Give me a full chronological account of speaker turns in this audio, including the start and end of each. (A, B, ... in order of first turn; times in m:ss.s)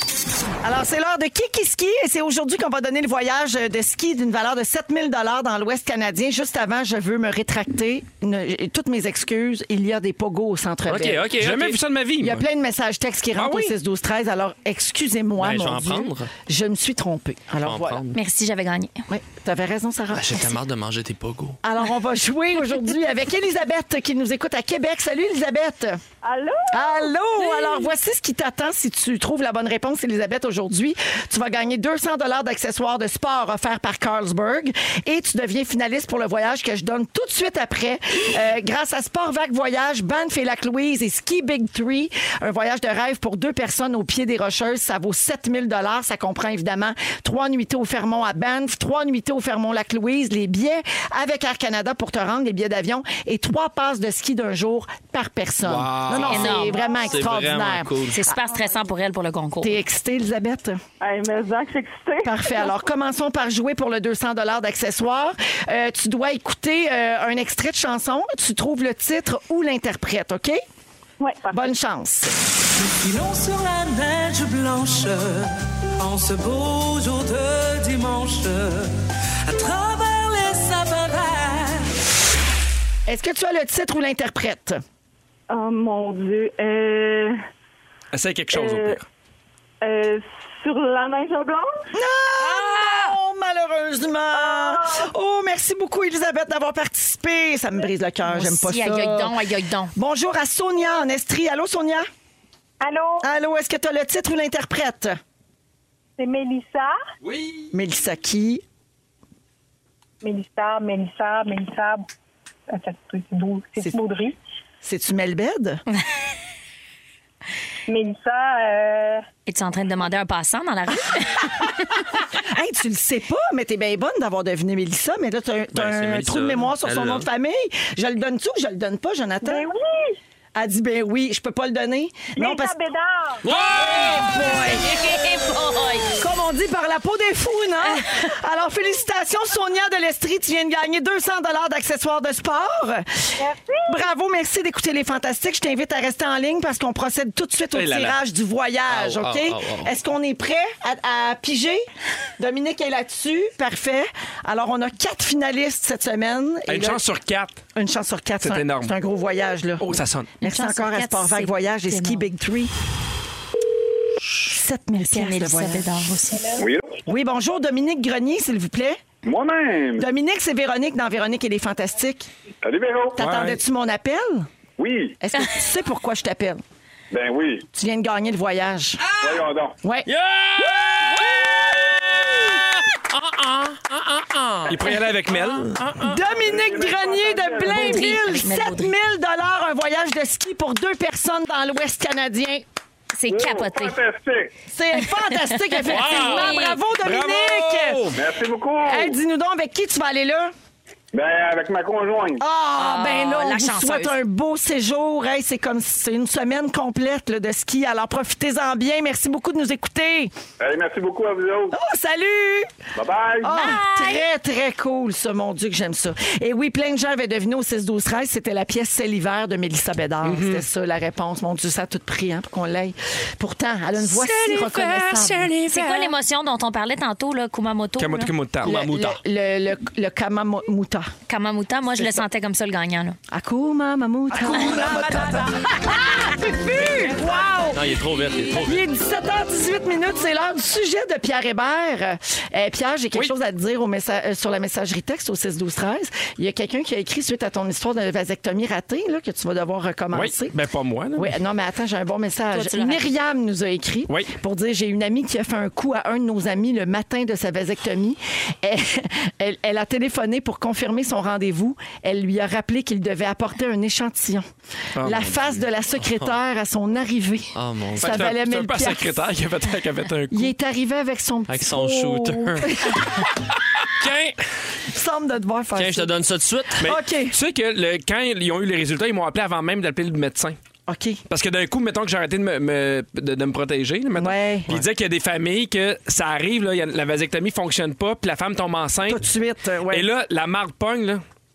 0:00.6-0:11.3 A
0:10.8-0:11.8 B
0:11.4-0:12.4 C
0:12.2-0:18.0 A
0:13.3-0:13.7 C
0:15.4-0:16.3 B
0:17.6-0:18.1 B
0:18.1-0:18.9 D
0:19.1-0:20.6 A
0:20.1-0:21.6 B
0:21.6-0:26.0 A
0:26.2-0:27.1 E
0:26.7-0:58.3 A
0:55.6-0:58.2 B
0:56.2-0:56.9 D
0:56.8-0:57.1 E
0:58.1-0:59.8 D
0:59.6-1:00.8 A
1:01.0-1:02.7 E
1:02.2-1:10.6 A
1:11.2-1:11.7 E
1:11.5-1:12.3 A
1:12.8-1:18.9 F
1:19.5-1:21.9 F
1:23.1-1:24.8 A
1:25.5-1:27.4 E
1:28.1-1:29.0 C
1:28.5-1:29.0 E
1:29.8-1:31.7 E
1:31.9-1:39.4 A
1:34.3-1:35.0 E
1:38.3-1:39.9 D
1:39.9-1:42.0 A
1:42.8-1:43.2 E
1:43.2-1:45.2 A
1:46.2-1:47.0 E
1:47.2-1:47.6 C
1:47.7-1:48.6 A
1:50.2-1:52.0 E
1:52.7-1:54.4 E
1:54.8-1:55.8 A
1:57.9-1:59.2 E
1:59.5-2:01.7 D
2:02.3-2:09.7 A
2:05.7-2:07.3 B
2:09.4-2:10.2 E
2:10.5-2:12.7 A
2:12.3-2:13.4 E
2:13.4-2:14.2 B
2:13.5-2:14.2 C
2:13.8-2:14.9 A
2:14.0-2:16.1 D
2:16.2-2:23.0 A
2:23.4-2:24.0 E
2:23.9-2:31.8 A
2:27.7-2:28.2 C
2:28.9-2:29.9 B
2:32.4-2:37.0 A
2:36.7-2:37.6 C
2:37.7-2:42.7 A
2:38.4-2:38.9 C
2:39.8-2:40.4 C
2:40.4-2:42.2 D
2:44.5-2:45.9 A
2:44.9-2:46.6 D
2:46.6-2:47.0 G
2:47.1-2:49.0 A
2:49.2-2:50.1 G
2:50.0-2:52.3 A
2:52.6-2:53.2 G
2:53.2-2:54.5 A
2:53.2-2:53.6 C
2:54.8-2:55.2 G
2:55.2-2:56.6 A
2:57.1-2:57.7 G
2:57.7-2:59.1 A
2:59.2-2:59.8 G
3:00.1-3:06.2 B
3:04.7-3:05.8 C
3:06.0-3:12.6 A
3:06.3-3:08.2 G
3:07.6-3:08.9 D
3:13.2-3:14.0 D
3:13.3-3:14.5 G
3:14.7-3:18.1 A
3:15.9-3:16.8 D
3:15.9-3:16.6 B
3:16.1-3:16.4 C
3:17.0-3:18.2 C
3:18.2-3:19.2 G
3:18.9-3:20.5 A
3:21.1-3:22.4 G
3:22.4-3:30.3 A
3:22.8-3:24.2 D
3:30.6-3:31.7 G
3:31.7-3:32.7 A
3:33.0-3:33.7 G
3:33.4-3:45.5 A
3:33.5-3:34.2 D
3:40.2-3:40.6 C
3:44.1-3:46.0 B
3:45.7-3:48.3 D
3:48.0-3:48.8 C
3:48.6-3:49.2 B
3:48.6-3:51.1 A
3:51.3-3:53.2 D
3:53.3-4:10.5 A
3:57.7-3:58.8 B
4:10.1-4:11.3 C
4:11.2-4:24.4 A
4:12.5-4:13.1 D
4:25.0-4:25.4 C
4:25.0-4:29.2 A
4:27.5-4:28.3 B
4:28.0-4:30.5 C
4:30.3-4:33.3 A
4:31.5-4:32.7 B
4:34.0-4:34.4 B
4:34.9-4:36.1 A
4:35.7-4:36.9 B
4:36.8-4:37.3 A
4:36.8-4:40.6 C
4:40.9-4:41.2 A
4:41.3-4:49.2 C
4:44.2-4:44.7 A
4:49.1-4:50.1 A
4:49.9-4:51.2 C